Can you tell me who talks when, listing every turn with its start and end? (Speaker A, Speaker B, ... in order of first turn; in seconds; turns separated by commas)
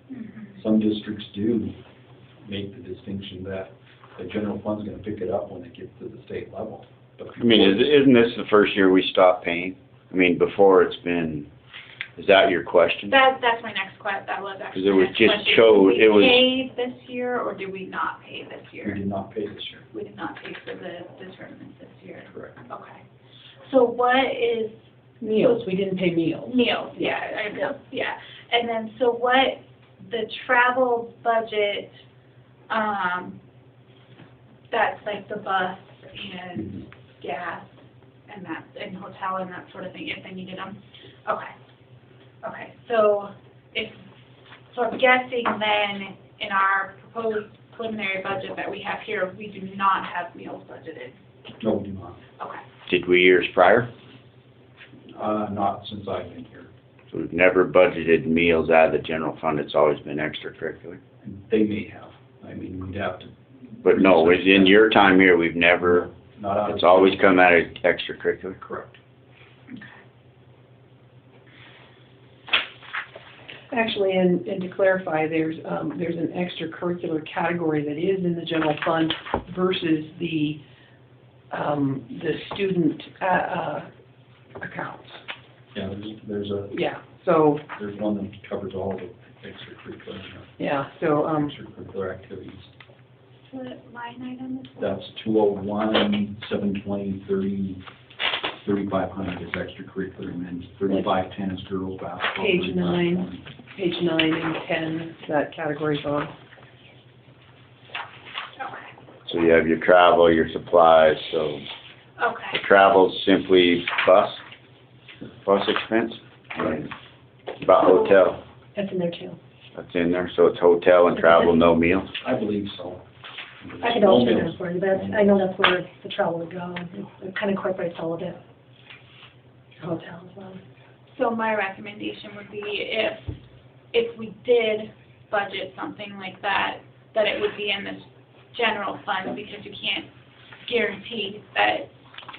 Speaker A: 0.1-0.5, Speaker B: 0.5-1.8, Speaker B: 2.5-8.0, Speaker C: 7.4-11.5, Speaker C: 12.2-13.1, Speaker A: 13.1-19.0, Speaker C: 14.7-16.4, Speaker B: 18.8-19.9, Speaker A: 19.9-23.0, Speaker B: 22.3-22.6, Speaker A: 23.6-24.8, Speaker D: 25.2-27.1, Speaker A: 25.3-25.6, Speaker A: 26.4-31.9, Speaker A: 32.7-33.4, Speaker A: 34.7-37.7, Speaker A: 38.3-41.5, Speaker A: 42.4-44.0, Speaker A: 44.7-51.1, Speaker B: 51.6-52.2, Speaker C: 52.9-53.9, Speaker B: 55.1-56.7, Speaker C: 57.1-61.0, Speaker B: 61.2-65.1, Speaker C: 63.8-66.1, Speaker B: 65.8-67.7, Speaker C: 66.7-68.6, Speaker B: 68.6-69.0, Speaker D: 73.7-80.6, Speaker D: 81.5-83.9, Speaker D: 84.6-85.2, Speaker B: 85.7-86.8, Speaker D: 86.7-87.6, Speaker B: 87.7-90.5, Speaker D: 90.6-91.5, Speaker B: 91.3-92.7, Speaker A: 93.5-95.0, Speaker B: 94.8-97.8, Speaker B: 98.6-103.5, Speaker D: 102.4-106.3, Speaker A: 108.6-108.9, Speaker C: 109.3-111.6, Speaker A: 112.2-112.6, Speaker C: 112.5-114.4, Speaker C: 115.4-116.9, Speaker C: 117.6-118.4, Speaker E: 118.7-119.4, Speaker C: 119.7-122.1, Speaker B: 122.2-123.0, Speaker B: 123.6-125.3, Speaker E: 123.8-128.4, Speaker E: 129.8-130.6, Speaker A: 131.1-133.3, Speaker A: 133.9-140.1, Speaker A: 140.6-141.9